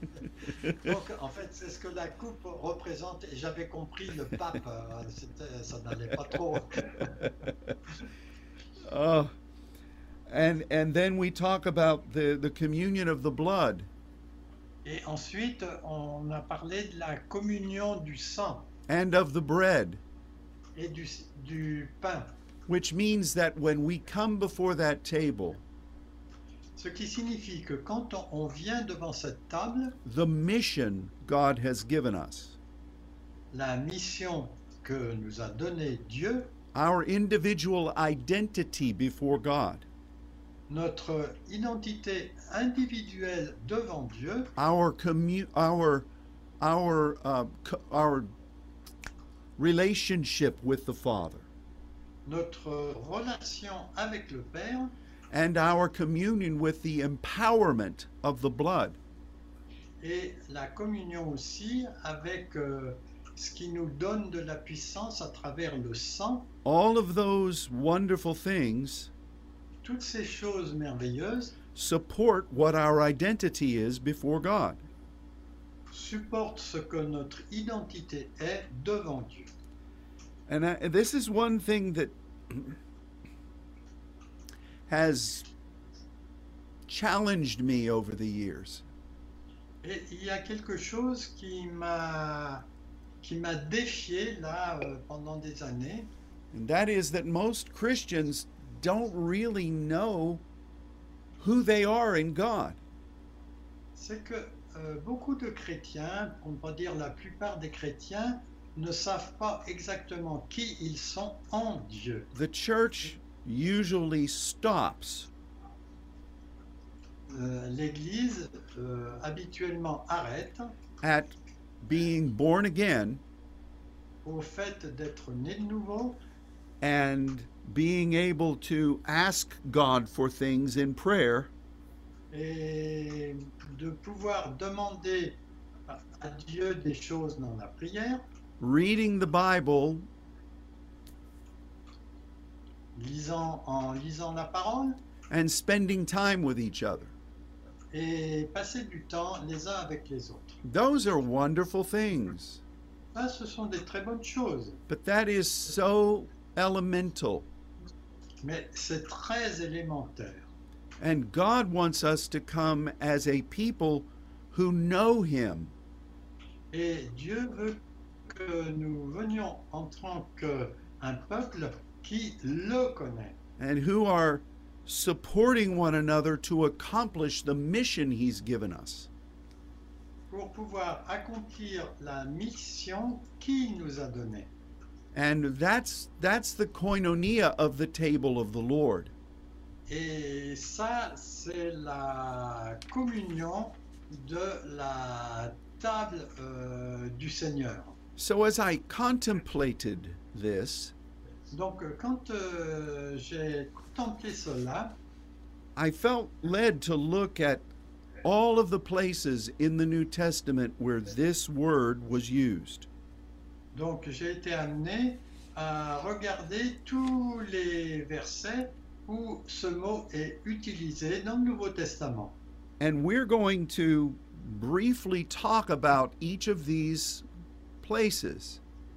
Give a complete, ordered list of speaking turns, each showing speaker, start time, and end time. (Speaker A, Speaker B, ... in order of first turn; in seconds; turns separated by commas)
Speaker A: 0.8-7.2, Speaker B: 8.8-9.3, Speaker B: 10.3-13.9, Speaker A: 14.8-18.7, Speaker B: 18.9-20.0, Speaker A: 20.7-22.3, Speaker B: 22.7-25.6, Speaker A: 26.8-30.0, Speaker B: 30.0-32.6, Speaker A: 33.5-36.5, Speaker B: 36.7-39.9, Speaker A: 40.7-44.5, Speaker B: 44.6-46.1, Speaker B: 46.6-48.3, Speaker B: 49.6-51.5, Speaker A: 52.2-55.0, Speaker B: 55.3-59.0, Speaker A: 60.0-66.5, Speaker B: 66.6-69.1, Speaker A: 69.8-71.5, Speaker B: 71.7-74.8, Speaker A: 75.9-79.5, Speaker B: 80.5-82.8, Speaker B: 84.9-85.5, Speaker B: 86.9-88.8, Speaker A: 89.8-92.6, Speaker A: 93.2-96.1, Speaker B: 96.5-100.4, Speaker B: 101.4-102.8, Speaker A: 103.9-112.3, Speaker B: 112.3-115.3, Speaker A: 117.3-120.7, Speaker B: 121.0-123.2, Speaker A: 124.2-126.2, Speaker B: 126.8-131.5, Speaker A: 132.3-138.2, Speaker B: 138.6-140.1, Speaker A: 142.9-145.0, Speaker B: 145.3-147.1, Speaker A: 147.9-150.6, Speaker B: 150.6-152.6, Speaker A: 153.1-154.8, Speaker B: 154.9-157.5, Speaker A: 158.4-160.5, Speaker B: 161.0-165.7, Speaker A: 166.7-173.4, Speaker B: 173.6-179.1, Speaker A: 180.3-184.5, Speaker B: 185.1-189.1, Speaker A: 189.9-197.9, Speaker B: 198.2-200.9, Speaker A: 201.5-205.0, Speaker B: 205.8-207.7, Speaker B: 208.2-212.9, Speaker A: 213.7-222.4, Speaker B: 222.8-227.2, Speaker B: 227.8-228.6